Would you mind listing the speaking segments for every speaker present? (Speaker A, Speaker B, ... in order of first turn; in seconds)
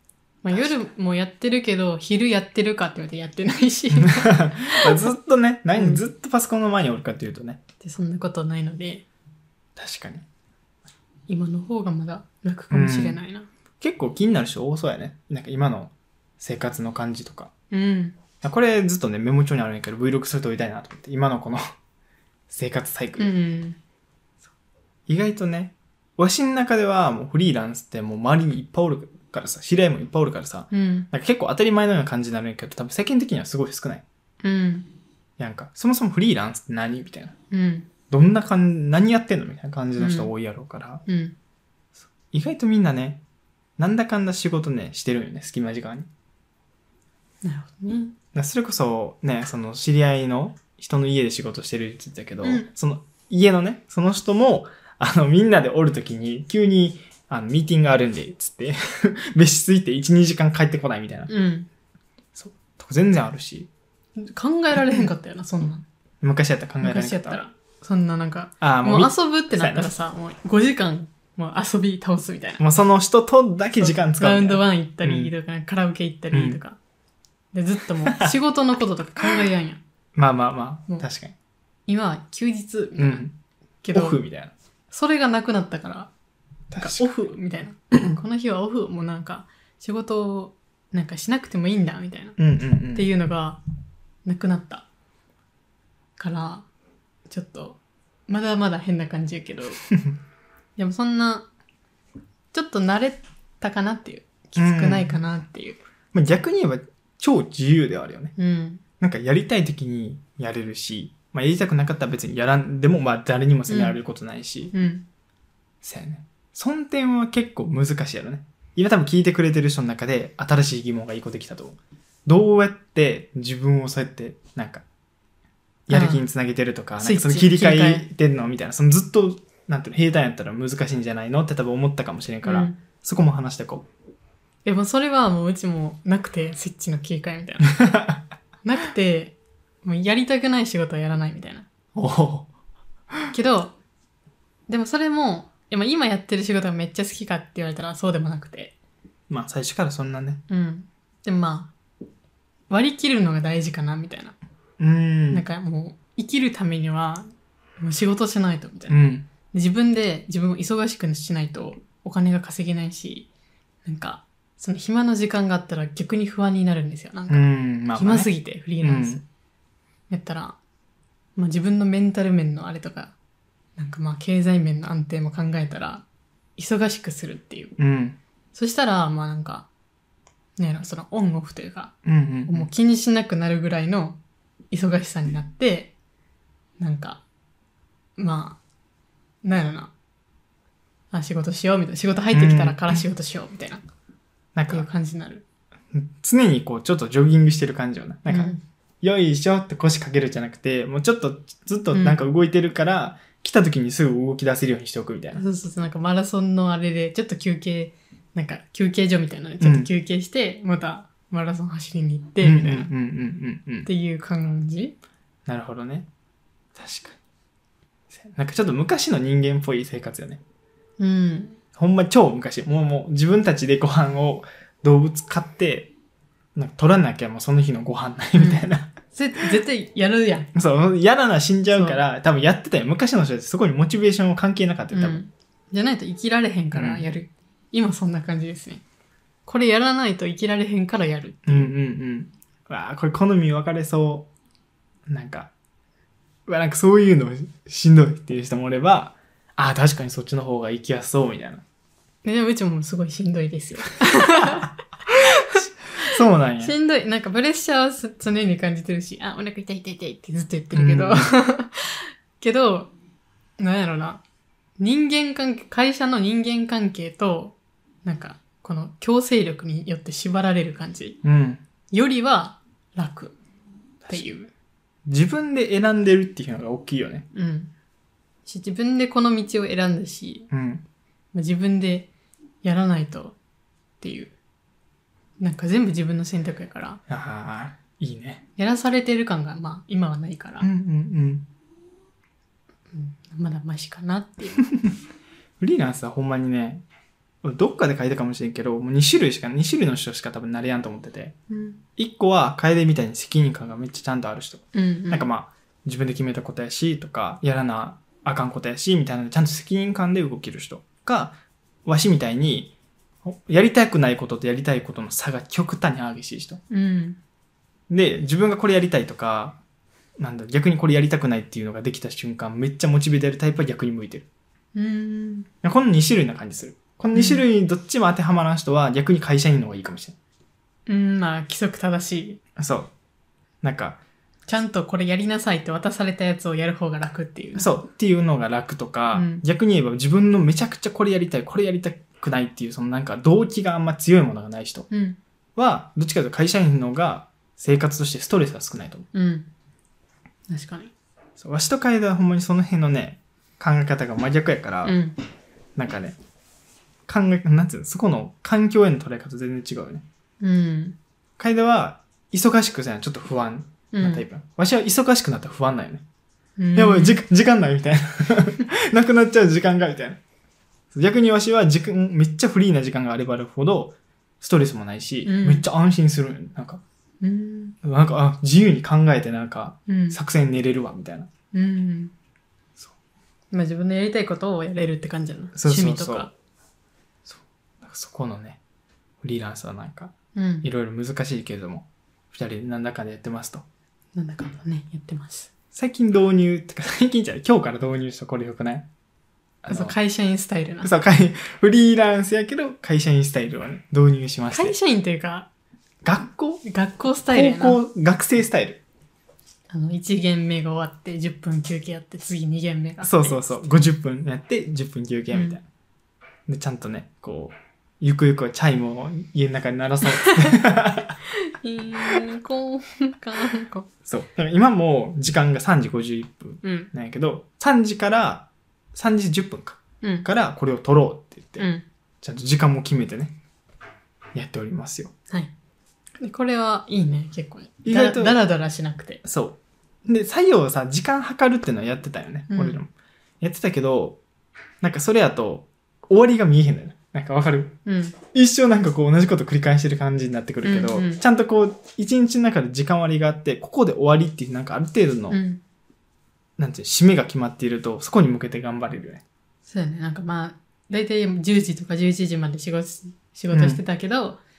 Speaker A: 0.4-5.1, 5.8-6.0, 7.8-9.1, 11.3-13.5, 17.7-18.2, 23.2-23.8, 30.7-31.1, 34.4-34.9, 37.5-37.9, 40.0-40.3, 41.1-41.4, 47.4-48.2, 52.4-52.7, 61.3-61.7, 64.2-65.8, 66.8-72.6, 73.8-76.8, 77.5-79.8, 81.9-83.2, 83.8-84.2, 84.9-86.1, 86.8-92.4, 92.9-93.6, 94.2-94.9, 96.2-96.7, 97.3-99.8, 100.8-101.5, 102.5-105.8, 108.4-108.8, 113.7-114.0, 114.7-115.1, 125.9-126.2, 127.0-128.1, 132.4-132.8, 134.7-137.9, 138.6-141.7, 143.3-143.8, 144.7-148.8, 150.5-151.7, 152.7-154.4, 155.3-159.0, 159.5-163.3, 163.8-169.2, 170.1-170.6, 171.4-173.2, 173.8-176.1, 176.6-177.7, 178.5-179.7, 180.6-181.9, 182.5-184.2, 184.7-185.9, 186.8-187.2, 188.2-188.6, 189.4-189.9, 191.1-193.8, 194.7-195.4, 198.3-198.6, 201.9-202.2, 205.4-212.9, 213.8-215.0, 221.0-221.6, 228.4-230.5, 231.7-232.0, 234.9-238.8, 239.5-241.7, 252.2-262.9, 263.6-264.2, 264.8-271.2, 271.9-273.4, 274.1-274.5, 277.3-277.7, 278.5-280.5, 281.3-282.1, 282.6-283.4, 284.0-284.3, 285.4-287.0, 288.6-290.7, 292.9-294.7, 301.5-301.8, 304.7-305.3, 316.7-317.2, 324.8-325.5, 327.1-327.4, 330.9-332.4, 334.5-337.7, 339.1-339.4, 344.9-345.2, 349.1-349.5, 350.5-350.9, 354.9-355.2, 360.4-361.0, 363.9-364.2, 366.6-367.2, 375.2-375.7, 377.2-377.8, 379.9-380.2, 381.5-382.1, 383.5-386.3, 390.3-390.7, 394.1-395.5, 399.7-400.9, 404.5-405.5, 406.6-407.8, 409.7-413.4, 415.3-415.6, 420.2-420.6, 421.3-423.9, 426.6-426.9, 430.0-430.3, 431.6-431.9, 436.2-439.2, 442.5-442.8, 447.9-448.2, 450.6-451.2, 455.3-455.6, 459.7-464.4
Speaker B: 0.5-0.8, 3.9-7.6, 9.8-10.2, 12.7-13.2, 13.8-17.5, 18.4-21.7, 22.5-23.3, 25.1-34.0, 35.4-37.4, 38.1-41.0, 42.3-43.2, 43.8-46.1, 48.3-61.3, 62.4-63.7, 66.2-67.4, 68.6-69.9, 72.6-75.3, 76.3-76.6, 78.1-78.4, 80.2-81.3, 83.0-83.3, 83.9-84.5, 86.7-87.1, 92.4-93.1, 104.6-105.2, 106.1-108.3, 109.0-114.7, 115.8-124.8, 125.9-133.9, 137.8-138.2, 141.9-142.5, 149.3-150.4, 154.8-155.4, 158.9-159.3, 167.3-169.2, 177.8-178.2, 182.1-182.7, 192.3-193.0, 194.6-194.9, 195.9-205.4, 209.6-209.9, 212.4-213.9, 215.5-216.1, 216.8-217.2, 218.1-220.4, 221.8-225.9, 226.6-228.9, 230.6-235.2, 236.7-237.1, 241.5-244.3, 245.1-245.5, 246.5-251.6, 255.4-256.7, 260.7-261.3, 271.2-271.6, 275.1-277.3, 280.5-280.9, 287.1-288.4, 290.6-291.5, 295.6-296.8, 297.4-301.4, 302.0-312.7, 313.2-316.6, 317.9-319.6, 320.2-324.3, 325.6-330.2, 332.6-332.9, 333.6-334.0, 337.6-344.9, 345.6-349.1, 351.4-355.0, 355.8-356.2, 357.1-360.1, 361.4-366.0, 366.8-370.2, 370.9-376.8, 377.8-381.3, 385.6-386.3, 387.3-388.6, 389.2-393.7, 395.7-398.9, 399.6-400.0, 400.8-404.8, 406.0-406.6, 407.3-408.8, 413.0-415.6, 416.5-421.2, 424.1-431.7, 432.2-433.4, 434.4-435.1, 437.8-438.4, 439.2-442.9, 443.4-444.2, 444.8-447.8, 448.3-455.4, 456.6-459.2, 463.5-463.8